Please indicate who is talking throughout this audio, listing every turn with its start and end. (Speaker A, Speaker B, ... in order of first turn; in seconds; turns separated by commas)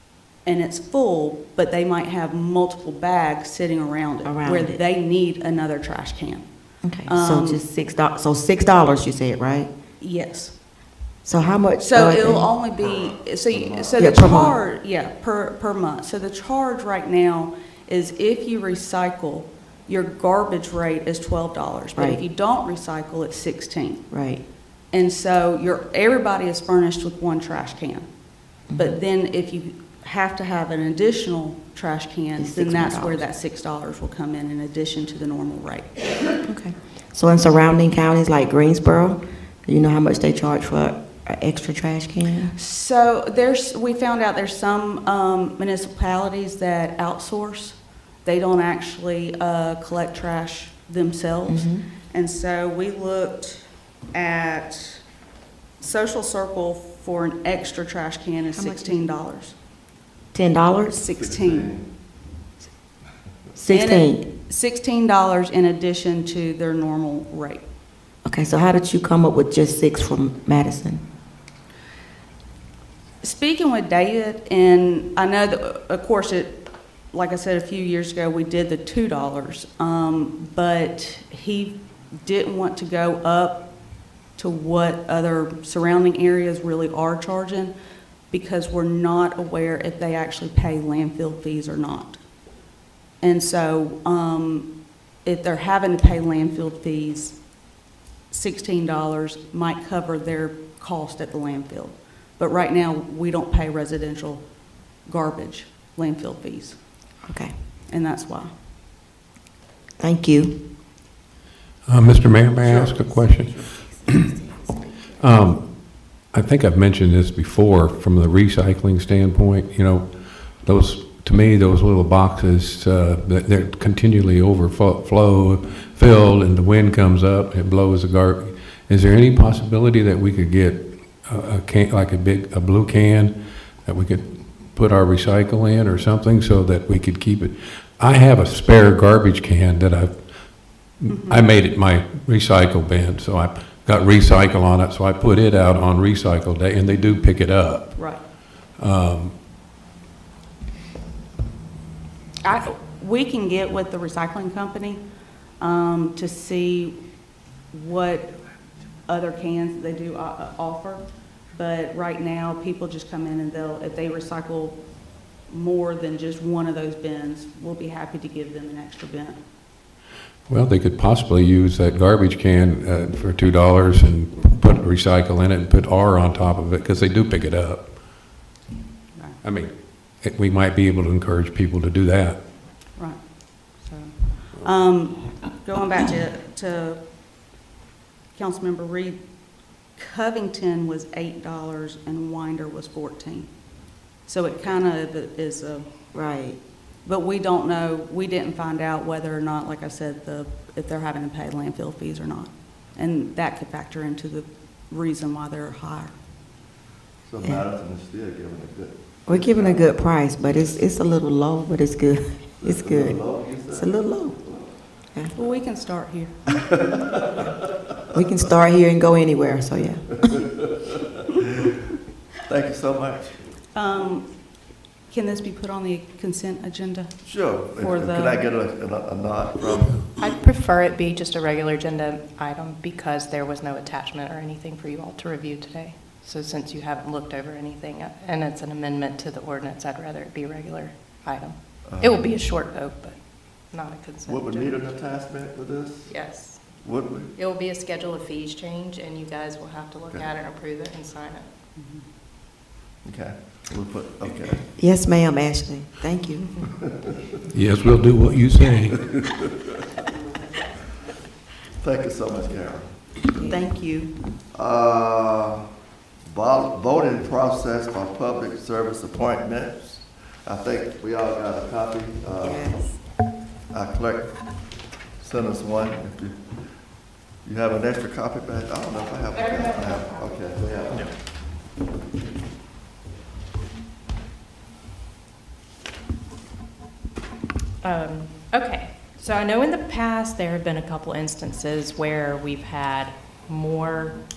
Speaker A: 0.5-6.5, Speaker B: 4.2-4.8, Speaker B: 6.8-9.7, Speaker A: 7.1-7.6, Speaker A: 10.0-10.5, Speaker B: 11.2-12.5, Speaker A: 11.8-24.0, Speaker C: 13.5-14.1, Speaker B: 14.0-14.6, Speaker B: 22.0-22.2, Speaker B: 24.1-24.4, Speaker A: 24.9-28.1, Speaker B: 28.7-29.0, Speaker A: 28.8-36.4, Speaker B: 32.4-33.2, Speaker B: 36.5-42.5, Speaker A: 42.5-55.0, Speaker B: 51.5-51.9, Speaker A: 55.8-59.5, Speaker B: 58.5-59.1, Speaker B: 60.3-61.0, Speaker A: 61.0-61.7, Speaker C: 61.2-61.9, Speaker B: 63.5-64.2, Speaker A: 63.7-67.6, Speaker B: 68.2-71.0, Speaker A: 73.2-83.7, Speaker A: 84.4-87.7, Speaker A: 88.3-92.2, Speaker A: 93.2-94.7, Speaker A: 95.2-97.4, Speaker A: 98.3-104.4, Speaker A: 105.1-106.8, Speaker B: 107.3-107.5, Speaker A: 107.9-108.5, Speaker B: 110.0-110.5, Speaker D: 111.9-114.4, Speaker D: 115.2-115.6, Speaker D: 116.3-120.1, Speaker D: 120.6-133.3, Speaker D: 133.8-140.1, Speaker D: 141.0-148.1, Speaker A: 141.1-141.4, Speaker D: 148.8-149.3, Speaker A: 152.4-155.0, Speaker A: 155.6-157.0, Speaker A: 157.7-158.3, Speaker A: 159.1-164.8, Speaker A: 165.5-169.4, Speaker D: 170.5-177.9, Speaker D: 179.4-179.7, Speaker D: 180.2-182.4, Speaker A: 183.8-187.0, Speaker A: 188.4-189.2, Speaker A: 190.0-193.5, Speaker A: 194.3-195.9, Speaker B: 196.1-196.6, Speaker A: 197.1-206.1, Speaker C: 207.3-209.9, Speaker B: 209.3-214.4, Speaker C: 212.6-214.7, Speaker A: 215.3-216.5, Speaker C: 216.6-217.5, Speaker B: 218.1-220.5, Speaker C: 222.4-223.5, Speaker A: 223.7-224.3, Speaker A: 225.1-227.2, Speaker C: 227.2-230.0, Speaker A: 227.8-228.4, Speaker E: 230.2-243.2, Speaker C: 241.9-242.4, Speaker E: 243.7-244.8, Speaker C: 244.3-246.1, Speaker E: 246.1-246.6, Speaker C: 246.8-247.3, Speaker E: 247.3-251.5, Speaker A: 251.8-252.0, Speaker C: 253.1-254.7, Speaker B: 254.8-256.7, Speaker C: 256.7-257.3, Speaker D: 257.5-259.0, Speaker C: 261.8-262.9, Speaker B: 263.3-263.7, Speaker A: 263.4-264.1, Speaker C: 264.5-265.6, Speaker C: 266.3-272.7, Speaker B: 272.4-273.0, Speaker C: 273.7-274.4, Speaker C: 275.2-276.4, Speaker C: 277.4-281.1, Speaker E: 279.4-280.9, Speaker E: 287.8-294.2